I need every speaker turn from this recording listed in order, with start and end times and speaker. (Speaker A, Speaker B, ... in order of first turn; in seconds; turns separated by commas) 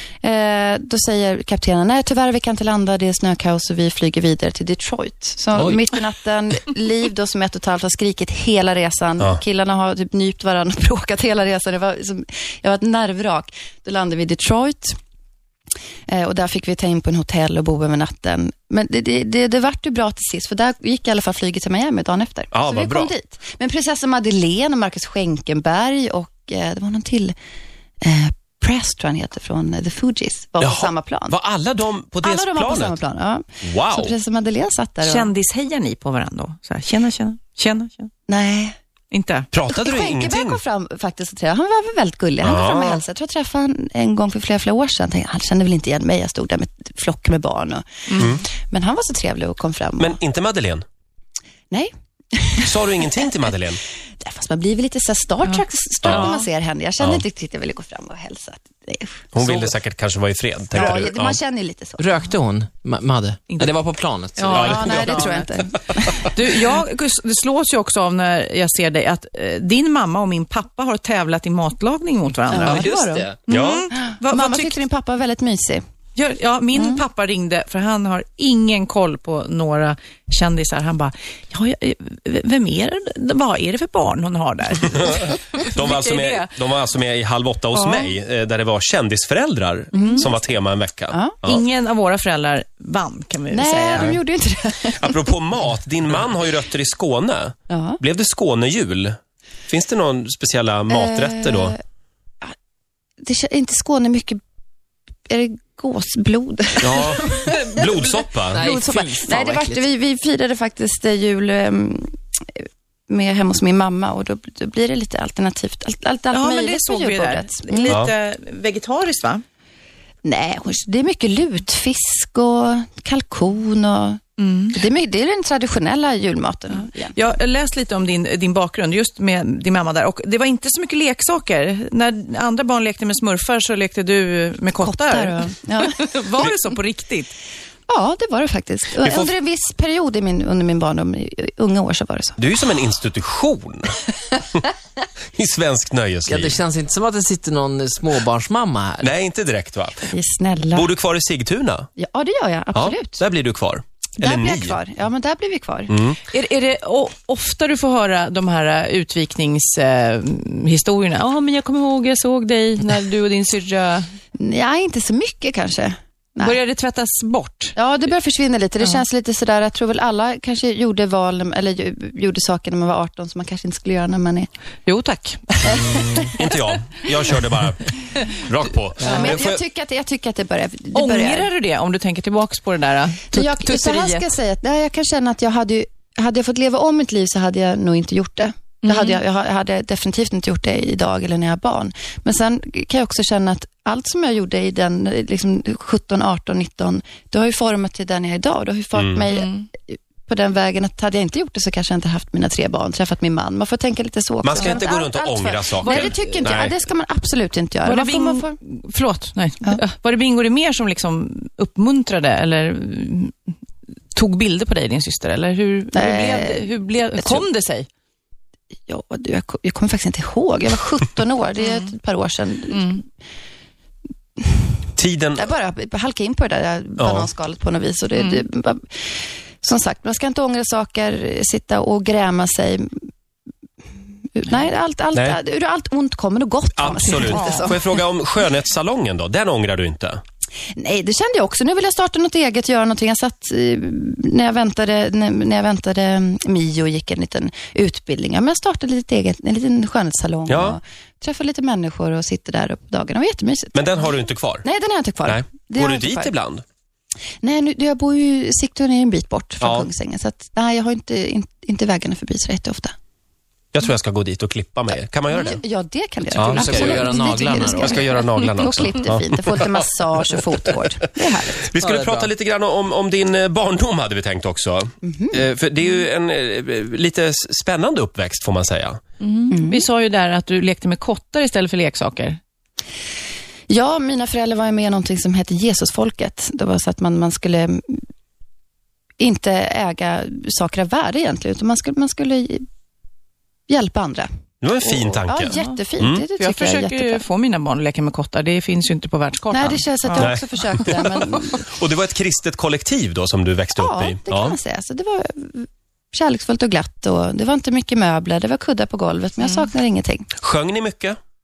Speaker A: 0.2-14.9, Speaker A: 16.1-27.3, Speaker B: 22.5-23.1, Speaker A: 28.0-31.3, Speaker B: 30.6-33.0, Speaker A: 32.2-35.3, Speaker B: 33.6-34.1, Speaker C: 35.0-38.1, Speaker A: 38.3-38.8, Speaker C: 39.1-39.5, Speaker B: 39.5-40.6, Speaker A: 39.8-50.2, Speaker B: 42.4-43.0, Speaker B: 48.2-48.4, Speaker B: 50.0-50.8, Speaker A: 51.7-53.1, Speaker B: 52.6-53.8, Speaker A: 54.2-59.3, Speaker C: 55.5-56.4, Speaker B: 56.0-56.3, Speaker B: 59.3-61.4, Speaker A: 60.7-62.1, Speaker D: 62.0-64.6, Speaker C: 64.4-65.5, Speaker B: 64.5-65.3, Speaker A: 64.5-66.2, Speaker C: 66.3-72.9, Speaker A: 72.5-73.3, Speaker D: 72.6-73.4, Speaker C: 73.5-74.8, Speaker B: 73.5-73.9, Speaker A: 73.9-75.8, Speaker C: 76.2-86.5, Speaker A: 76.8-77.0, Speaker B: 85.7-91.6, Speaker C: 87.8-88.1, Speaker C: 89.9-90.2, Speaker A: 90.0-90.2, Speaker A: 91.1-91.3, Speaker C: 91.5-94.2, Speaker A: 93.5-95.2, Speaker B: 95.0-99.2, Speaker A: 97.7-98.0, Speaker B: 99.7-101.8, Speaker A: 100.9-101.8, Speaker A: 103.2-104.4, Speaker A: 105.3-107.8, Speaker B: 106.8-108.7, Speaker D: 108.5-109.8, Speaker A: 108.6-118.0, Speaker C: 116.3-119.4, Speaker B: 117.9-118.1, Speaker A: 120.2-124.2, Speaker C: 124.4-124.8, Speaker A: 124.7-127.2, Speaker C: 127.1-137.3, Speaker A: 134.8-136.5, Speaker A: 137.9-142.4, Speaker B: 139.0-139.3, Speaker B: 142.4-144.0, Speaker B: 145.4-146.6, Speaker D: 146.2-149.1, Speaker B: 149.0-150.1, Speaker A: 150.1-150.9, Speaker B: 150.8-151.9, Speaker A: 152.0-153.2, Speaker B: 152.8-154.8, Speaker A: 154.2-155.9, Speaker B: 155.9-156.2, Speaker C: 156.3-164.1, Speaker A: 164.4-166.6, Speaker C: 166.4-167.8, Speaker A: 167.8-174.5, Speaker C: 174.8-175.8, Speaker A: 175.6-176.5, Speaker B: 176.3-179.6, Speaker A: 179.0-181.5, Speaker C: 180.9-184.2, Speaker A: 183.3-208.6, Speaker C: 188.8-189.2, Speaker B: 198.9-199.2, Speaker C: 199.3-199.7, Speaker B: 204.4-206.8, Speaker C: 204.5-204.9, Speaker C: 205.8-206.2, Speaker C: 207.8-213.3, Speaker C: 214.1-217.9, Speaker A: 215.9-217.4, Speaker A: 218.9-223.0, Speaker C: 221.6-221.9, Speaker C: 222.7-223.0, Speaker B: 225.0-225.5, Speaker A: 225.3-232.9, Speaker B: 227.0-227.3, Speaker A: 234.3-237.8, Speaker B: 236.8-240.2, Speaker C: 237.4-237.6, Speaker A: 240.8-254.0, Speaker B: 250.5-250.8, Speaker B: 253.8-254.6, Speaker A: 254.6-256.3, Speaker B: 255.2-256.6, Speaker A: 257.4-262.9, Speaker B: 259.6-259.9, Speaker B: 263.7-265.6, Speaker A: 265.3-271.7, Speaker B: 266.4-269.7, Speaker D: 266.4-268.0, Speaker B: 271.5-279.0, Speaker D: 271.8-272.3, Speaker A: 275.0-275.4, Speaker C: 279.2-282.4, Speaker A: 279.5-279.8, Speaker A: 283.7-288.0, Speaker A: 289.2-292.6, Speaker A: 293.7-294.3, Speaker B: 294.6-296.2, Speaker A: 295.1-297.2, Speaker C: 295.5-295.8, Speaker C: 296.4-300.4, Speaker A: 299.5-301.6, Speaker B: 300.2-300.9, Speaker B: 301.5-304.6, Speaker A: 303.8-310.3, Speaker B: 310.4-311.2